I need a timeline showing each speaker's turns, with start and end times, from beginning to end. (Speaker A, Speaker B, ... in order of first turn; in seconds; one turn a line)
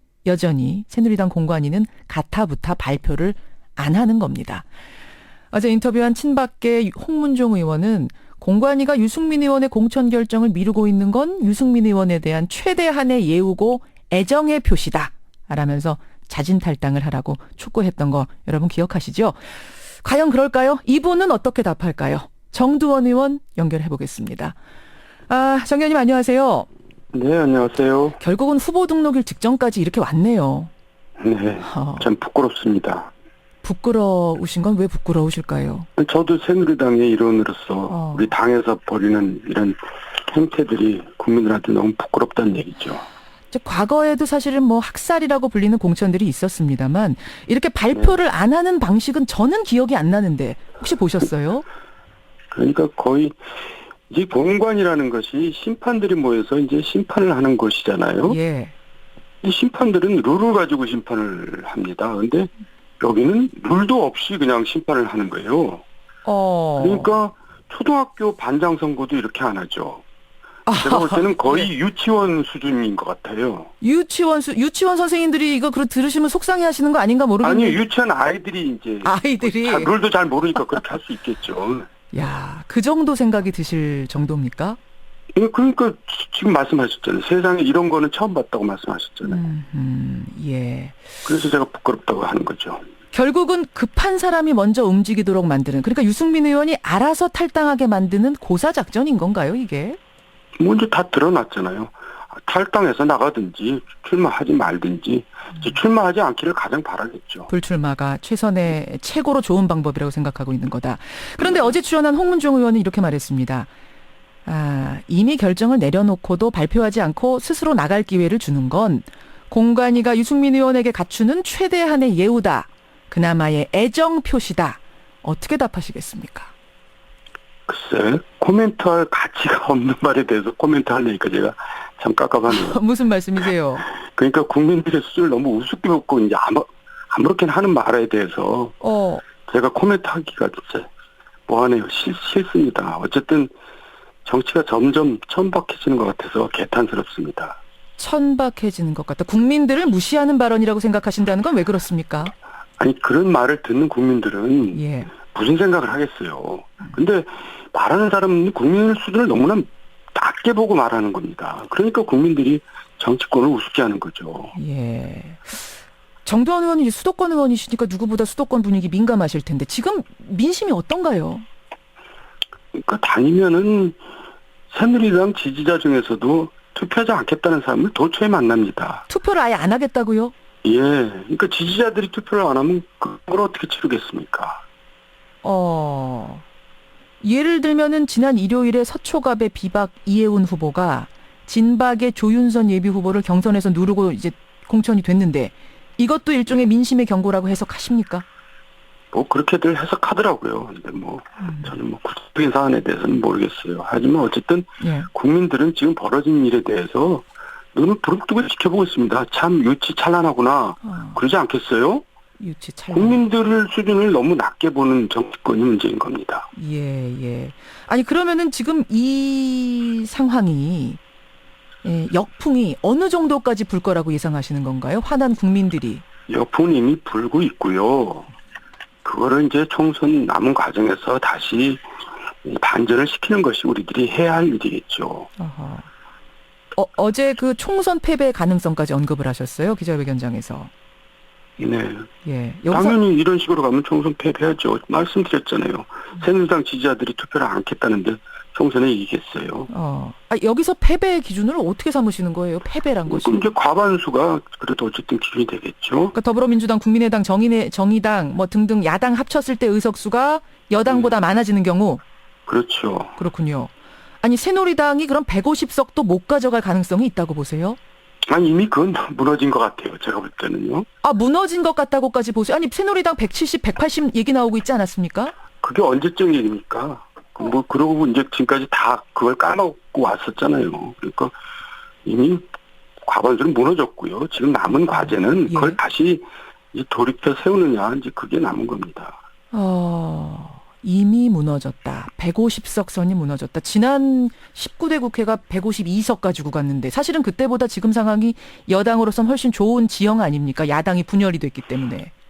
Speaker A: 0.2-4.7
Speaker A: 5.5-19.4
Speaker A: 20.0-24.6
Speaker A: 25.3-26.7
Speaker B: 27.1-28.2
Speaker A: 28.2-30.7
Speaker B: 31.2-33.1
Speaker A: 31.6-32.0
Speaker A: 33.6-35.9
Speaker B: 36.0-43.0
Speaker A: 37.9-38.3
Speaker A: 43.5-51.6
Speaker B: 52.5-53.4
Speaker B: 54.1-58.4
Speaker A: 58.3-58.7
Speaker B: 59.4-65.8
Speaker A: 66.3-67.1
Speaker B: 66.8-70.0
Speaker A: 70.7-71.7
Speaker B: 70.8-73.7
Speaker A: 73.8-77.8
Speaker B: 77.4-81.9
Speaker A: 79.0-79.9
Speaker A: 82.1-84.8
Speaker B: 85.3-89.4
Speaker A: 89.3-91.0
Speaker B: 91.3-92.8
Speaker A: 93.1-100.0
Speaker B: 100.6-107.5
Speaker A: 107.5-113.7
Speaker A: 114.5-126.5
Speaker B: 127.7-132.8
Speaker A: 132.5-133.9
Speaker B: 133.9-138.8
Speaker A: 138.8-139.2
Speaker B: 139.4-140.9
Speaker B: 141.5-143.5
Speaker B: 144.2-147.6
Speaker A: 148.0-152.3
Speaker B: 152.8-164.6
Speaker A: 154.7-155.1
Speaker A: 164.6-165.7
Speaker A: 166.2-171.5
Speaker B: 172.7-174.0
Speaker B: 174.7-179.1
Speaker A: 179.1-180.3
Speaker B: 180.6-184.6
Speaker A: 185.4-186.4
Speaker A: 187.2-198.2
Speaker B: 199.1-212.0
Speaker A: 201.4-201.7
Speaker A: 204.8-205.1
Speaker A: 210.8-211.2
Speaker A: 212.4-213.2
Speaker B: 212.9-216.5
Speaker A: 216.6-221.0
Speaker A: 221.8-226.0
Speaker B: 226.3-228.3
Speaker B: 229.0-231.8
Speaker B: 232.4-235.3
Speaker A: 235.4-235.9
Speaker A: 236.8-240.7
Speaker B: 241.6-242.1
Speaker A: 242.2-243.0
Speaker B: 242.7-249.7
Speaker A: 249.7-253.5
Speaker B: 253.1-256.1
Speaker A: 256.1-262.0
Speaker B: 260.9-261.1
Speaker B: 262.5-263.1
Speaker A: 263.2-263.7
Speaker A: 264.2-267.8
Speaker B: 268.3-270.9
Speaker A: 271.0-275.3
Speaker B: 275.6-281.3
Speaker B: 282.1-282.4
Speaker B: 283.0-289.2
Speaker A: 284.9-285.8
Speaker A: 289.5-302.1